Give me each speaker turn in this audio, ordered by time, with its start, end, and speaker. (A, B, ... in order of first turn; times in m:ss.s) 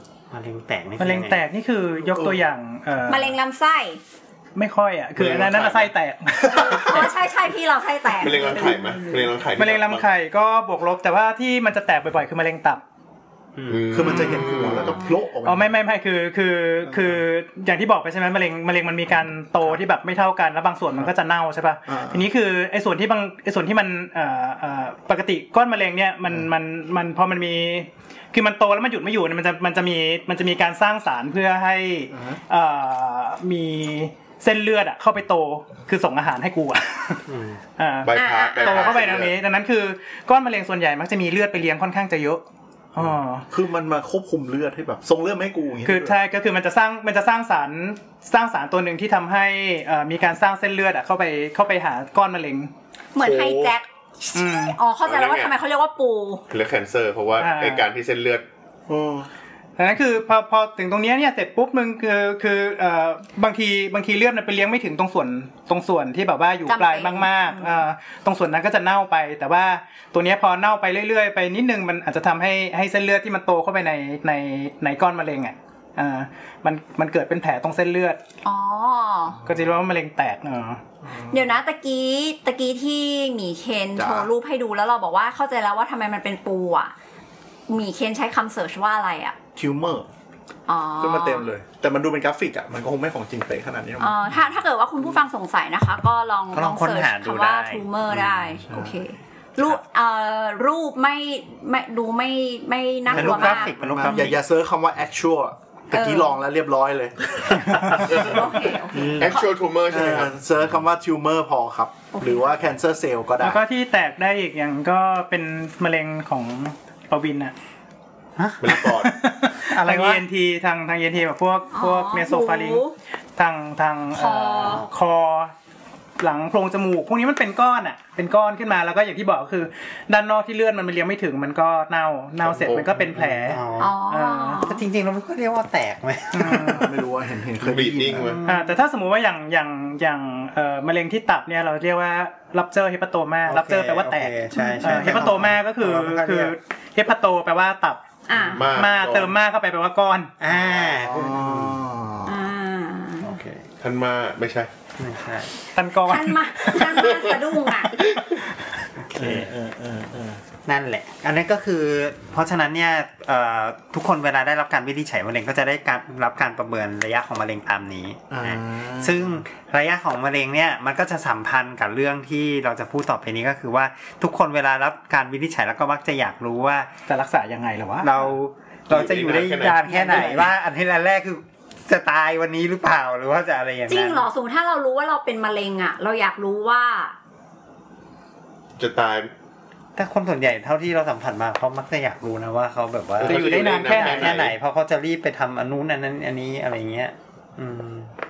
0:00.3-0:01.4 A
0:01.0-0:03.4 B
0:02.0-0:02.4 C
0:03.1-0:04.0 D
0:04.6-0:07.1 B
0:05.2-0:05.9 E
0:06.5-0:09.3 D
0:08.1-0:10.0 E
0:09.6-0:12.8 B
0:13.6-0:14.4 A
0:13.7-0:15.0 E
0:13.9-0:15.7 C
0:15.4-0:37.2 B
0:16.9-0:17.2 C
0:21.9-0:22.3 C
0:32.1-0:32.4 C
0:37.3-0:37.6 A
0:37.8-0:42.4 B
0:38.0-0:39.4 E
0:38.1-0:39.2 D
0:42.9-0:43.5 B
0:43.5-0:46.2 C
0:45.8-0:52.7 B
0:53.2-0:56.4 D
0:53.2-0:53.8 C
0:54.4-0:54.8 B
0:55.0-0:55.5 E
0:56.5-0:58.4 E
0:57.4-0:57.9 B
0:58.9-0:59.3 C
0:59.8-1:18.2 B
1:06.7-1:07.8 D
1:18.4-1:19.4 D
1:19.5-1:20.8 B
1:21.0-1:21.5 C
1:21.3-1:26.9 D
1:24.0-1:24.3 C
1:27.7-1:29.4 D
1:29.6-1:30.1 C
1:30.7-1:31.5 D
1:31.0-1:34.2 C
1:34.0-1:44.3 D
1:36.5-1:37.9 A
1:38.2-1:39.0 C
1:43.1-1:44.4 A
1:43.1-1:53.6 C
1:45.9-1:46.4 D
1:47.9-1:49.4 D
1:48.1-1:48.6 E
1:49.2-1:50.4 E
1:52.1-1:52.5 D
1:53.4-1:57.6 B
1:58.4-1:58.9 A
1:58.6-1:59.1 E
1:58.7-2:02.8 B
1:59.7-2:00.2 A
2:01.7-2:02.9 D
2:03.4-2:05.5 B
2:04.1-2:04.9 D
2:06.2-2:14.6 B
2:12.4-2:13.0 E
2:13.1-2:14.0 A
2:13.8-2:14.8 D
2:14.6-2:16.9 A
2:16.3-2:16.9 B
2:16.5-2:18.4 C
2:17.6-2:18.4 E
2:18.2-2:18.7 A
2:18.4-2:28.0 B
2:23.5-2:26.5 A
2:24.5-2:25.3 D
2:28.3-2:28.7 D
2:28.5-2:29.4 E
2:28.7-2:30.3 B
2:30.4-2:31.8 A
2:30.5-2:32.4 C
2:32.2-2:33.4 D
2:33.2-2:33.6 A
2:33.8-2:34.7 E
2:35.0-2:35.6 A
2:35.8-2:36.8 B
2:36.0-2:38.0 D
2:39.0-2:39.5 A
2:39.2-2:40.4 C
2:40.7-2:56.9 A
2:48.3-2:49.4 C
2:57.1-2:58.1 B
2:58.0-3:04.3 A
2:58.9-3:00.5 E
2:59.9-3:00.5 B
3:03.9-3:07.1 D
3:08.8-3:09.3 E
3:10.0-3:18.1 A
3:13.2-3:14.5 E
3:13.2-3:14.4 B